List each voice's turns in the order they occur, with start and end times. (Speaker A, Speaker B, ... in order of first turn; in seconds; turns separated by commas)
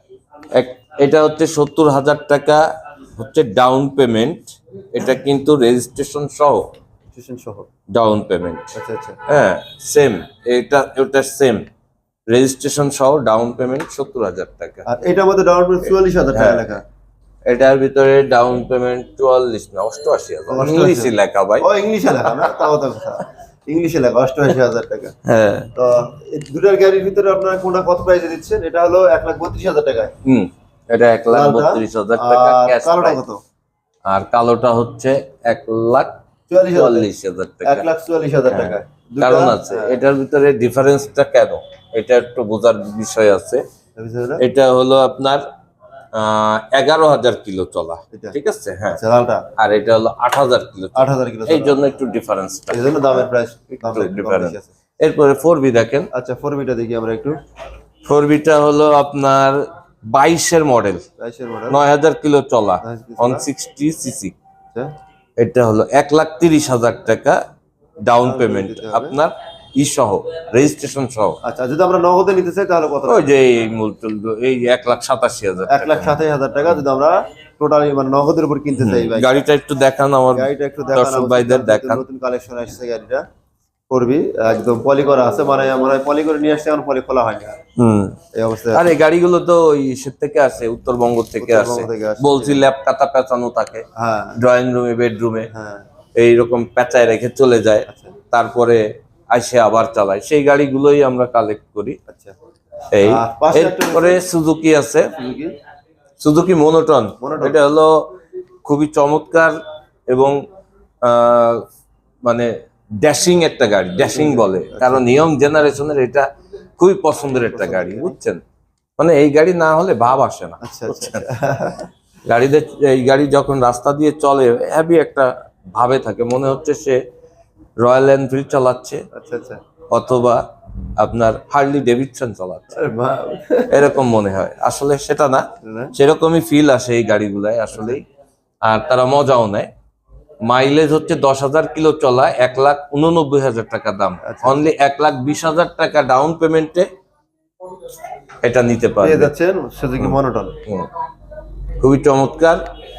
Speaker A: 0.5-6.7, Speaker B: 7.1-7.7, Speaker A: 7.9-8.7, Speaker B: 8.8-9.2, Speaker A: 9.3-11.7, Speaker A: 12.3-14.9, Speaker B: 14.9-16.8, Speaker A: 16.3-16.7, Speaker A: 17.4-21.7, Speaker B: 20.5-25.1, Speaker A: 22.4-22.7, Speaker A: 25.2-25.7, Speaker B: 25.8-30.1, Speaker A: 30.2-33.2, Speaker B: 31.3-33.4, Speaker A: 34.1-36.2, Speaker B: 36.5-37.1, Speaker A: 36.7-37.9, Speaker B: 37.6-40.0, Speaker A: 38.5-43.6, Speaker B: 44.0-44.4, Speaker A: 44.4-45.5, Speaker A: 46.1-49.0, Speaker B: 48.9-49.5, Speaker A: 49.6-53.2, Speaker B: 51.0-51.8, Speaker B: 52.7-54.7, Speaker A: 53.7-56.1, Speaker B: 56.1-57.4, Speaker A: 58.0-61.1, Speaker B: 61.2-61.8, Speaker A: 61.7-64.4, Speaker B: 62.8-63.5, Speaker A: 65.4-67.4, Speaker A: 68.0-71.4, Speaker B: 68.2-69.2, Speaker B: 71.4-73.3, Speaker A: 73.1-76.2, Speaker B: 75.7-79.3, Speaker A: 78.7-82.0, Speaker B: 80.3-83.2, Speaker B: 83.9-87.6, Speaker A: 87.8-88.2, Speaker B: 88.3-88.9, Speaker A: 88.7-93.8, Speaker B: 91.4-92.6, Speaker B: 94.0-94.4, Speaker A: 94.4-95.5, Speaker B: 95.5-95.8, Speaker A: 96.2-102.0, Speaker B: 97.9-98.2, Speaker B: 102.1-102.3, Speaker A: 102.9-105.2, Speaker B: 103.0-104.2, Speaker B: 105.2-105.5, Speaker A: 106.2-109.6, Speaker B: 107.2-107.6, Speaker A: 110.1-110.4, Speaker A: 111.0-111.7, Speaker A: 112.2-116.3, Speaker B: 114.0-115.3, Speaker A: 116.8-118.4, Speaker B: 117.5-118.2, Speaker A: 119.0-121.3, Speaker B: 120.6-121.9, Speaker A: 122.3-127.0, Speaker A: 127.8-129.1, Speaker B: 129.1-129.6, Speaker A: 129.9-130.4, Speaker A: 131.0-132.9, Speaker B: 132.7-133.9, Speaker A: 133.7-138.1, Speaker B: 135.6-135.9, Speaker A: 138.6-139.7, Speaker A: 140.4-146.9, Speaker B: 144.2-144.6, Speaker A: 148.4-149.3, Speaker B: 149.0-150.6, Speaker A: 150.0-150.9, Speaker A: 151.8-152.6